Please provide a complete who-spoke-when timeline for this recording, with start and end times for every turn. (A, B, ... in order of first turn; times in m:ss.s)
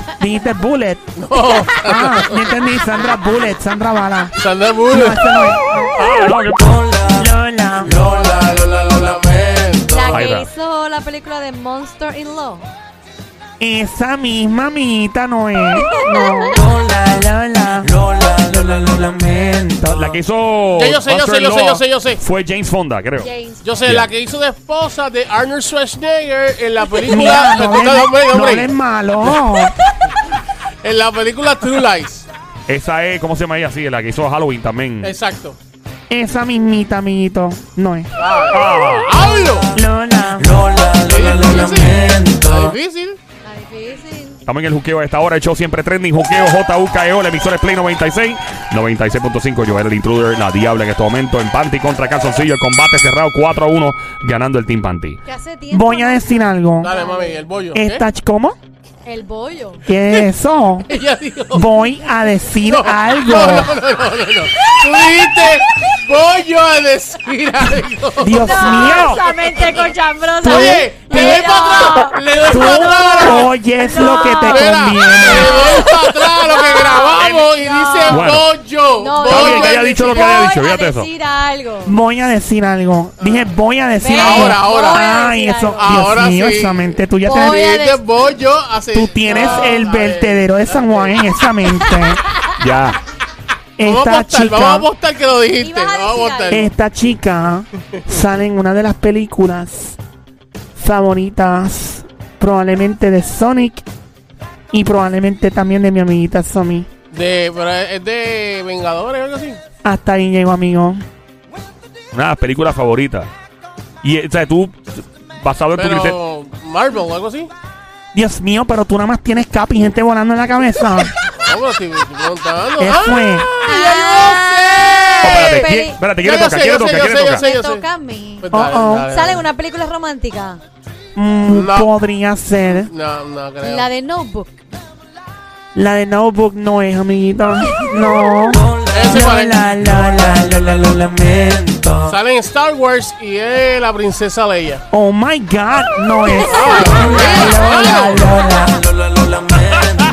0:00.2-0:01.1 A
0:01.2-0:02.5 B
0:01.7-0:04.4 A
0:04.4-0:06.2 B
0:04.9-0:06.1 A
0:06.0-0:06.8 C
0:07.1-0:08.0 A
0:07.8-0:10.3 B
0:09.9-0:12.7 D
0:10.1-0:10.5 C
0:13.6-0:20.1 A
0:15.8-0:16.6 D
0:19.9-0:23.3 C
0:20.7-0:22.2 B
0:23.2-0:23.7 D
0:23.6-0:28.7 B
0:27.0-0:29.7 A
0:29.2-0:29.6 B
0:30.8-0:32.3 B
0:32.7-0:35.1 C
0:35.0-0:35.6 B
0:36.1-0:38.1 A
0:38.2-0:39.7 B
0:38.5-0:39.2 C
0:39.7-0:40.6 A
0:41.0-0:43.2 B
0:43.4-0:44.4 D
0:44.4-0:55.2 C
0:55.2-0:57.4 D
0:55.7-0:56.9 A
0:56.8-0:58.0 B
0:57.7-0:58.6 A
0:59.0-0:59.8 D
0:59.9-1:00.9 A
1:00.9-1:01.8 B
1:01.5-1:03.7 A
1:02.6-1:13.5 B
1:04.7-1:05.1 D
1:08.2-1:09.2 A
1:08.4-1:18.3 D
1:10.4-1:11.4 A
1:12.5-1:15.8 A
1:14.2-1:20.4 B
1:18.0-1:18.5 C
1:19.0-1:22.0 D
1:19.2-1:21.1 C
1:21.8-1:27.7 A
1:23.2-1:23.5 B
1:24.0-1:26.1 D
1:24.1-1:25.1 B
1:25.8-1:31.2 B
1:27.2-1:28.0 D
1:28.9-1:32.2 A
1:32.6-1:33.0 C
1:33.8-1:34.9 A
1:33.8-1:36.7 B
1:35.6-1:36.6 D
1:36.5-1:40.0 A
1:40.8-1:43.8 A
1:44.7-1:46.9 A
1:47.1-1:49.6 B
1:49.8-1:51.0 A
1:52.1-1:53.3 C
1:54.0-1:56.2 C
1:55.7-1:57.5 B
1:58.1-2:01.1 A
2:01.4-2:07.8 B
2:02.8-2:03.5 A
2:03.6-2:06.0 D
2:05.2-2:07.4 C
2:07.3-2:10.6 D
2:08.4-2:09.4 B
2:08.5-2:09.1 A
2:11.2-2:12.9 A
2:11.4-2:11.9 B
2:12.6-2:13.9 B
2:13.6-2:14.6 D
2:15.7-2:21.9 A
2:18.9-2:19.6 B
2:22.0-2:24.8 B
2:24.9-2:28.9 A
2:26.4-2:28.3 B
2:26.7-2:27.4 D
2:29.5-2:30.0 C